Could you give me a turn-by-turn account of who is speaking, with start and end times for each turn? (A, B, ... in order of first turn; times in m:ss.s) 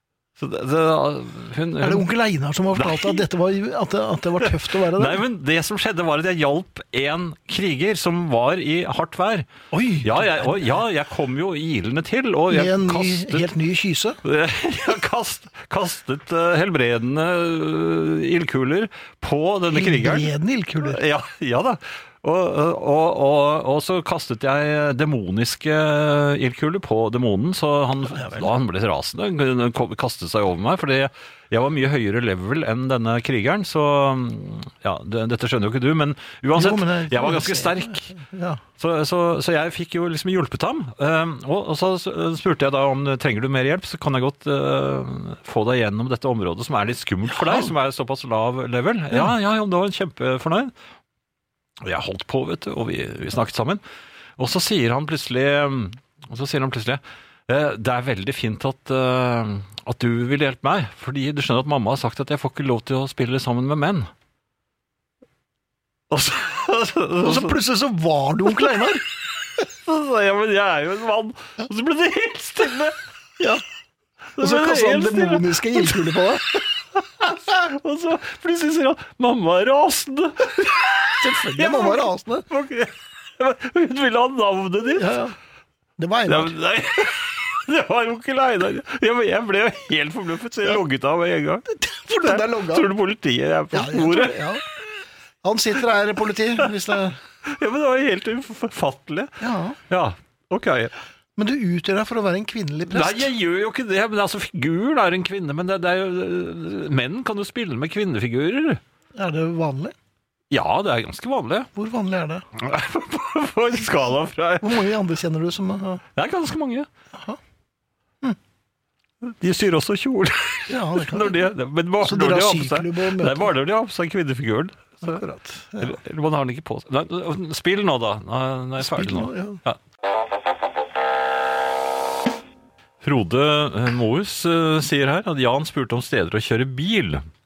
0:00.4-0:02.1 A
0:01.8-0:05.2 B
0:02.7-0:03.2 A
0:04.4-0:09.5 A
0:09.7-0:10.8 B
0:10.0-0:13.5 A
0:12.5-0:14.2 B
0:14.2-0:38.1 A
0:19.7-0:21.0 B
0:28.1-0:28.5 B
0:36.5-0:38.6 B
0:38.8-0:50.7 A
0:47.3-0:47.7 B
0:51.8-0:53.8 A
0:54.4-1:04.1 A
1:06.1-1:07.6 A
1:07.2-1:09.0 B
1:09.6-1:13.0 A
1:14.4-1:16.4 A
1:14.4-1:16.6 B
1:16.9-1:25.2 A
1:21.2-1:22.4 B
1:25.0-1:25.3 B
1:26.0-1:26.5 B
1:26.3-1:34.7 A
1:31.7-1:32.9 B
1:33.7-1:34.6 B
1:35.4-1:37.2 B
1:37.4-1:40.9 A
1:39.4-1:39.8 B
1:41.4-1:43.3 B
1:42.9-1:48.8 A
1:49.1-1:49.9 B
1:50.5-1:51.7 A
1:51.7-1:52.4 B
1:52.6-1:54.8 A
1:54.6-1:56.0 B
1:56.1-1:56.9 A
1:57.1-1:57.4 B
1:59.2-2:05.2 A
2:00.7-2:01.5 B
2:02.0-2:03.5 B
2:05.0-2:06.0 B
2:05.8-2:09.8 A
2:08.8-2:09.6 B
2:13.0-2:17.2 A